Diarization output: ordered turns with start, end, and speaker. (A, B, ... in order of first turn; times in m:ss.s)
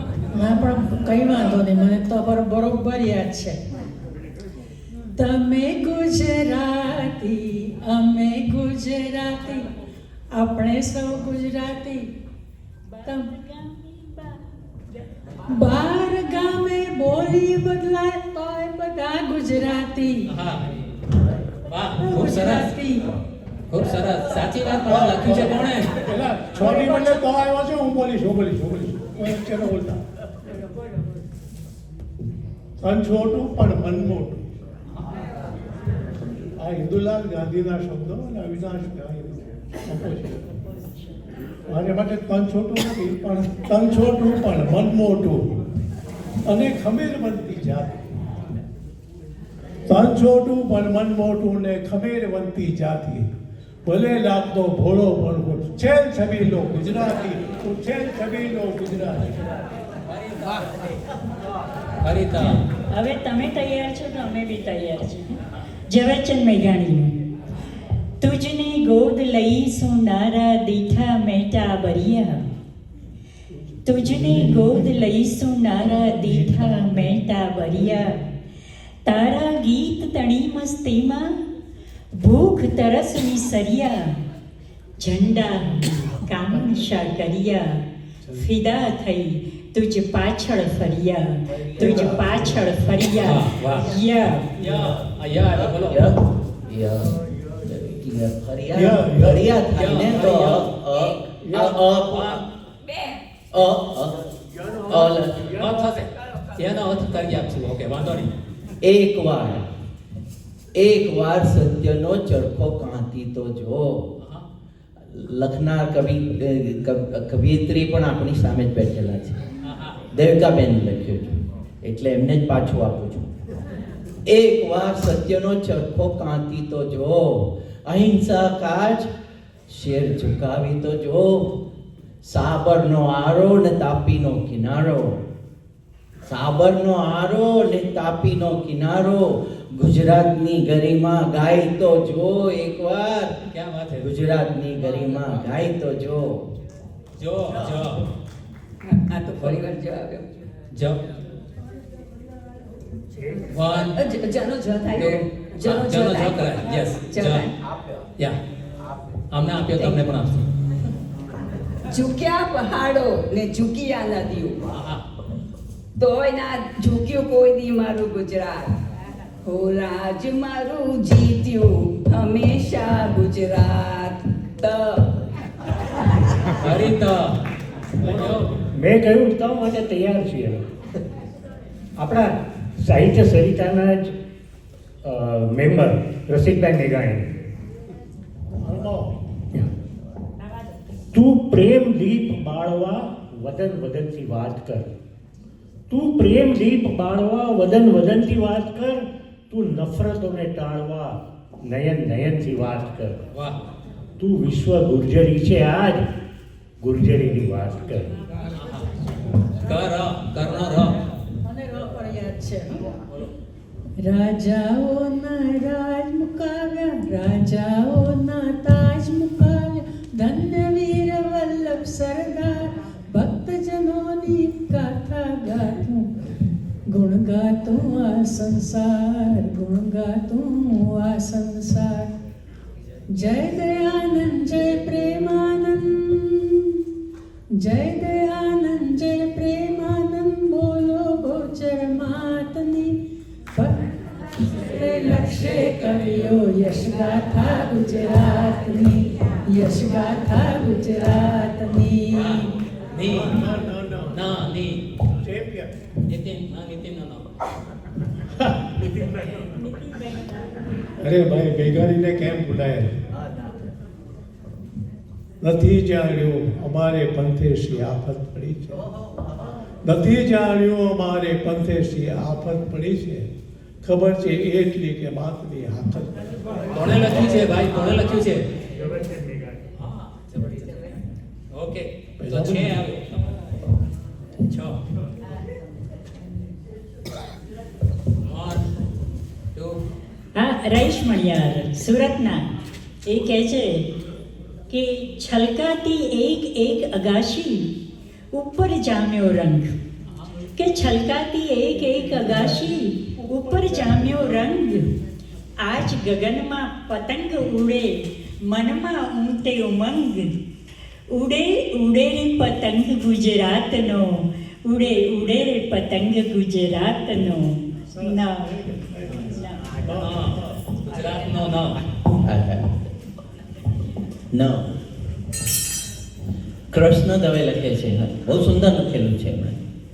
0:00.3-0:03.6 A
0:05.2-0:09.7 A
0:10.3-0:12.1 A
0:13.0-0:14.4 B
0:13.0-0:13.3 A
0:15.5-0:20.3 A
0:20.3-0:20.7 C
0:21.7-0:22.8 C
0:22.0-0:23.1 A
0:23.7-0:26.1 C
0:24.9-0:30.0 D
0:26.7-0:27.0 A
0:32.8-0:34.5 D
0:36.6-0:40.6 D
0:41.7-0:45.6 D
0:46.4-0:48.0 D
0:49.9-0:53.3 D
0:53.8-0:59.4 D
1:00.1-1:00.7 C
1:02.0-1:02.6 C
1:02.4-1:07.1 B
1:08.2-1:12.5 B
1:13.5-1:14.9 D
1:13.8-1:18.2 B
1:15.8-1:17.2 D
1:17.8-1:18.0 D
1:19.0-1:21.4 B
1:22.1-1:24.2 B
1:25.0-1:27.8 B
1:26.5-1:27.0 D
1:28.3-1:34.5 B
1:31.5-1:32.7 E
1:31.8-1:32.3 D
1:33.2-1:34.0 C
1:34.5-1:36.2 C
1:35.5-1:42.5 E
1:38.7-1:39.5 D
1:39.7-1:40.7 C
1:41.4-1:41.8 D
1:42.1-1:42.4 C
1:42.8-1:43.4 F
1:43.5-1:44.3 E
1:44.6-1:45.0 G
1:44.8-1:45.6 E
1:45.6-1:48.3 C
1:45.8-1:46.5 F
1:48.8-1:49.7 E
1:50.8-1:54.2 E
1:55.1-1:59.4 E
1:59.6-2:00.0 C
2:00.1-2:03.3 E
2:04.3-2:09.1 E
2:09.7-2:11.6 E
2:12.2-2:15.2 E
2:16.3-2:23.4 E
2:23.5-2:24.1 C
2:24.0-2:26.5 E
2:27.2-2:28.0 C
2:28.8-2:30.2 F
2:30.7-2:31.0 C
2:33.2-2:33.5 G
2:33.5-2:34.0 C
2:34.0-2:37.5 F
2:34.9-2:37.5 C
2:39.3-2:40.5 C
2:39.8-2:40.0 F
2:41.9-2:44.7 F
2:44.7-2:45.0 C
2:46.0-2:48.7 F
2:49.4-2:55.1 F
2:56.6-2:57.4 C
2:58.0-2:58.5 C
2:58.7-3:00.6 G
3:02.0-3:04.2 G
3:05.0-3:07.3 G
3:08.6-3:09.2 D
3:11.1-3:14.9 G
3:15.9-3:23.2 G
3:24.2-3:26.1 G
3:26.8-3:28.2 G
3:28.6-3:28.9 C
3:29.6-3:31.0 C
3:31.4-3:32.8 A
3:34.0-3:46.1 A
3:46.9-3:52.1 A
3:53.1-3:56.6 A
3:57.5-4:03.0 A
4:03.5-4:12.5 A
4:05.1-4:06.4 C
4:12.1-4:13.4 C
4:13.1-4:14.3 D
4:14.1-4:14.9 C
4:15.2-4:15.8 D
4:16.0-4:17.2 C
4:18.4-4:18.7 D
4:19.2-4:20.5 B
4:21.0-4:23.0 D
4:23.2-4:23.6 E
4:25.4-4:28.8 D
4:29.8-4:33.3 D
4:33.8-4:36.3 D
4:36.7-4:38.5 C
4:38.7-4:39.6 G
4:39.8-4:43.4 C
4:42.2-4:42.8 D
4:44.4-4:44.8 C
4:48.3-4:48.6 C
4:49.5-4:49.8 C
4:50.4-4:52.5 B
4:53.0-4:53.9 B
4:54.7-4:57.7 B
4:58.3-4:59.8 B
5:00.6-5:04.9 B
5:01.9-5:04.5 D
5:05.6-5:10.3 B
5:11.1-5:18.5 B
5:17.9-5:20.7 D
5:19.2-5:19.8 B
5:20.0-5:21.8 C
5:21.0-5:21.4 F
5:22.2-5:22.9 E
5:24.3-5:24.7 E
5:26.7-5:29.6 E